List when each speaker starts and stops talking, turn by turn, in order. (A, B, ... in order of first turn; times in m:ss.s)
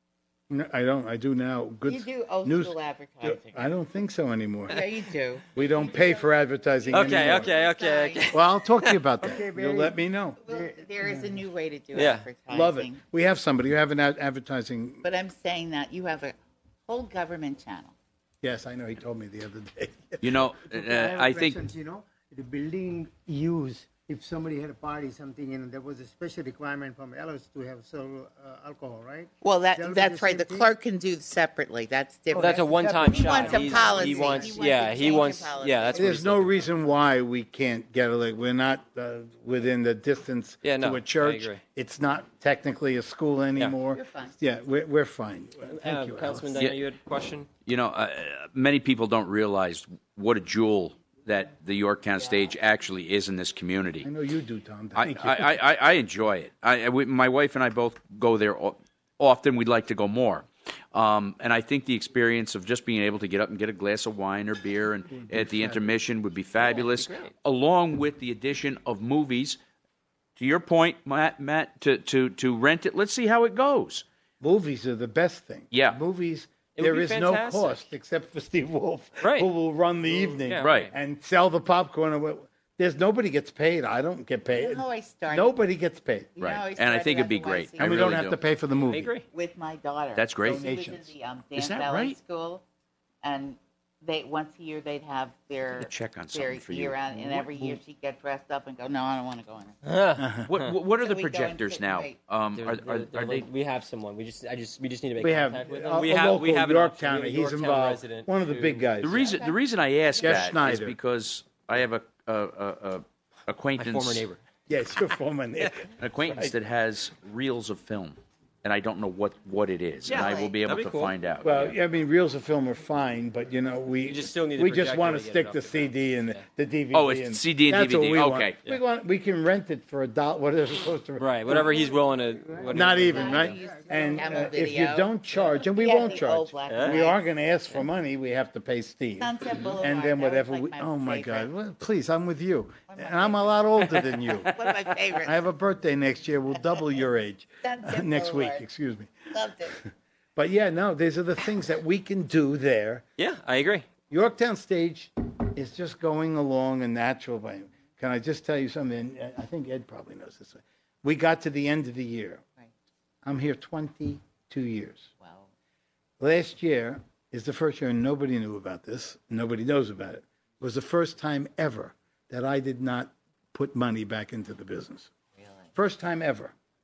0:00.5-0:04.9 A
0:01.8-0:03.7 B
0:04.7-0:06.3 B
0:05.5-0:07.5 A
0:06.8-0:08.4 B
0:06.9-0:09.0 C
0:08.3-0:10.4 A
0:09.2-0:11.4 D
0:10.4-0:13.0 B
0:11.9-0:12.2 C
0:12.5-0:15.0 A
0:15.0-0:16.3 B
0:16.9-0:17.9 B
0:18.4-0:20.5 A
0:20.2-0:21.6 E
0:20.6-0:30.7 D
0:29.4-0:36.2 B
0:32.3-0:34.7 D
0:32.3-0:36.5 C
0:35.9-0:46.5 A
0:40.6-0:41.6 C
0:43.9-0:44.4 B
0:45.7-0:47.5 C
0:46.5-0:46.8 E
0:47.6-0:54.1 E
0:52.1-0:52.6 B
0:54.0-0:55.6 A
0:54.9-1:09.6 E
1:05.1-1:05.9 A
1:06.6-1:07.3 C
1:10.4-1:14.0 E
1:14.4-1:26.4 A
1:15.7-1:16.0 E
1:16.8-1:17.9 C
1:19.2-1:19.5 C
1:20.1-1:20.9 C
1:20.6-1:20.9 E
1:24.5-1:25.6 B
1:26.4-1:28.3 B
1:26.4-1:28.4 E
1:27.8-1:29.1 A
1:28.8-1:29.2 C
1:29.3-1:32.6 B
1:30.1-1:30.6 E
1:30.4-1:31.1 A
1:31.6-1:32.2 E
1:33.2-1:39.8 B
1:35.7-1:37.0 E
1:37.1-1:37.7 A
1:39.8-1:40.8 C
1:40.2-1:40.5 A
1:40.4-1:43.5 E
1:40.8-1:42.2 B
1:42.5-1:49.3 C
1:45.2-1:49.3 A
1:49.0-1:54.2 E
1:49.3-1:50.5 B
1:50.2-1:51.0 A
1:53.8-1:54.4 C
1:54.7-1:56.5 A
1:56.0-2:01.8 E
2:00.0-2:00.6 B
2:00.1-2:01.1 C
2:01.4-2:11.8 A
2:04.0-2:06.4 C
2:06.9-2:08.6 E
2:11.2-2:13.6 C
2:12.4-2:14.7 D
2:12.7-2:24.6 A
2:12.9-2:17.2 B
2:16.7-2:17.0 C
2:19.2-2:21.5 B
2:22.9-2:23.7 B
2:24.5-2:25.4 B
2:25.2-2:33.0 A
2:26.5-2:27.0 B
2:27.6-2:28.6 B
2:29.3-2:29.8 B
2:33.2-2:33.9 C
2:34.1-2:42.4 A
2:43.2-2:45.1 A
2:45.2-2:45.5 B
2:46.2-2:55.1 A
2:55.4-2:55.7 B
2:55.7-2:56.5 A